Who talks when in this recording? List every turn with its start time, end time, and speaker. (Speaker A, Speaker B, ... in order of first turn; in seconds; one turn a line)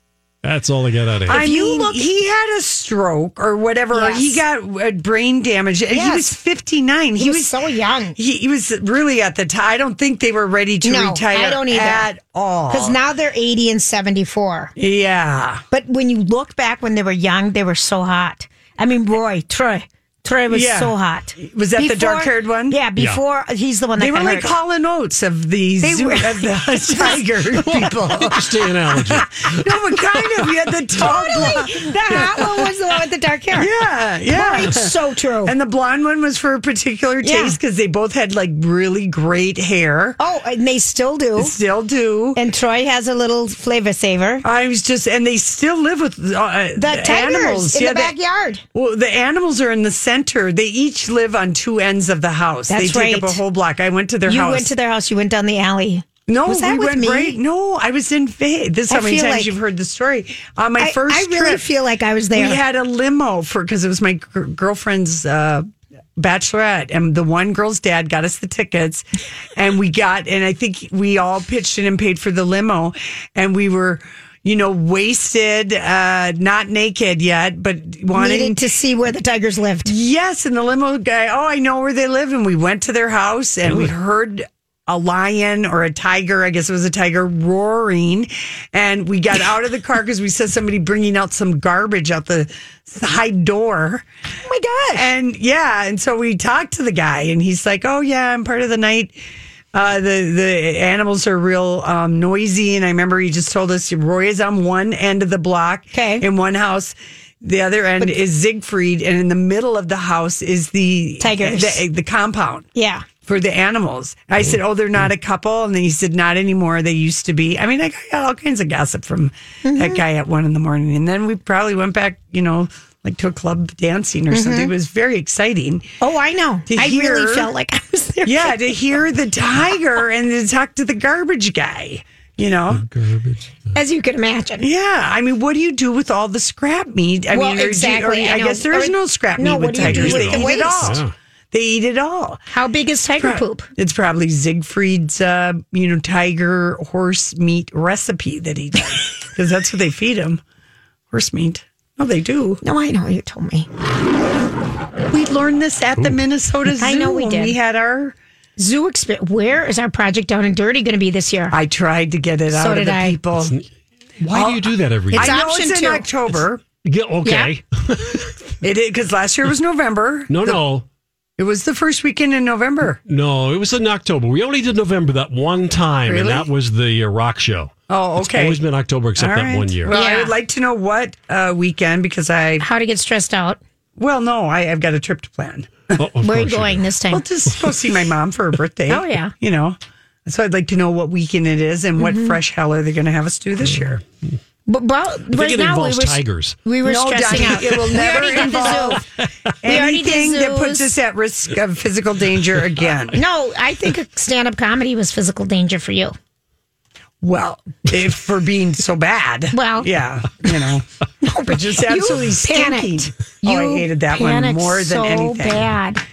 Speaker A: 0.4-1.4
Speaker B: 1.3-7.5
Speaker C: 1.3-2.0
Speaker C: 3.9-4.4
Speaker C: 5.9-6.3
Speaker C: 7.2-8.2
Speaker B: 8.2-13.0
Speaker C: 10.8-12.1
Speaker C: 12.7-14.7
Speaker B: 14.8-15.6
Speaker C: 15.7-24.5
Speaker B: 20.5-22.8
Speaker B: 24.0-32.5
Speaker C: 25.8-27.2
Speaker A: 27.6-29.7
Speaker C: 31.0-33.7
Speaker B: 33.5-34.9
Speaker C: 34.3-35.5
Speaker B: 35.4-40.2
Speaker C: 37.2-37.6
Speaker C: 40.2-41.5
Speaker B: 41.4-42.4
Speaker C: 42.3-44.4
Speaker B: 44.4-48.1
Speaker C: 46.8-48.6
Speaker B: 48.7-54.7
Speaker C: 52.7-53.4
Speaker C: 54.2-57.4
Speaker B: 56.3-61.6
Speaker C: 58.9-59.5
Speaker C: 60.8-62.6
Speaker B: 62.3-78.6
Speaker C: 78.1-79.9
Speaker B: 79.8-94.0
Speaker C: 94.4-95.1
Speaker B: 94.9-99.2
Speaker B: 99.7-112.7
Speaker C: 105.9-106.2
Speaker C: 111.2-111.8
Speaker C: 112.7-113.0
Speaker B: 113.2-125.9
Speaker C: 119.6-120.0
Speaker C: 124.3-124.7
Speaker C: 126.0-128.7
Speaker B: 126.7-127.5
Speaker B: 128.2-132.8
Speaker A: 132.7-133.5
Speaker C: 133.7-134.7
Speaker B: 134.6-142.4
Speaker C: 137.3-141.0
Speaker A: 139.8-141.1
Speaker C: 142.5-143.7
Speaker B: 143.2-150.4
Speaker B: 151.1-152.6
Speaker C: 152.6-153.7
Speaker B: 155.1-158.2
Speaker C: 156.8-157.6
Speaker C: 158.6-161.6
Speaker B: 161.5-163.5
Speaker C: 162.5-163.2
Speaker A: 164.2-165.4
Speaker B: 164.3-166.6
Speaker C: 165.1-166.1
Speaker A: 166.6-168.4
Speaker C: 167.2-167.5
Speaker B: 168.6-170.6
Speaker A: 170.3-170.8
Speaker B: 171.4-173.0
Speaker A: 173.1-179.9
Speaker B: 176.0-176.5
Speaker B: 177.9-178.6
Speaker B: 179.2-182.7
Speaker C: 179.9-180.3
Speaker C: 182.6-183.6
Speaker B: 184.0-186.0
Speaker A: 186.0-186.9
Speaker C: 186.2-187.2
Speaker B: 187.1-194.0
Speaker C: 188.9-189.3
Speaker C: 192.0-192.4
Speaker C: 194.7-199.0
Speaker A: 195.3-196.6
Speaker B: 196.8-199.0
Speaker A: 198.1-199.0
Speaker B: 199.6-203.2
Speaker C: 199.7-200.9
Speaker C: 203.1-206.2
Speaker B: 207.2-210.8
Speaker C: 209.5-209.9
Speaker C: 211.2-216.0
Speaker B: 211.4-215.7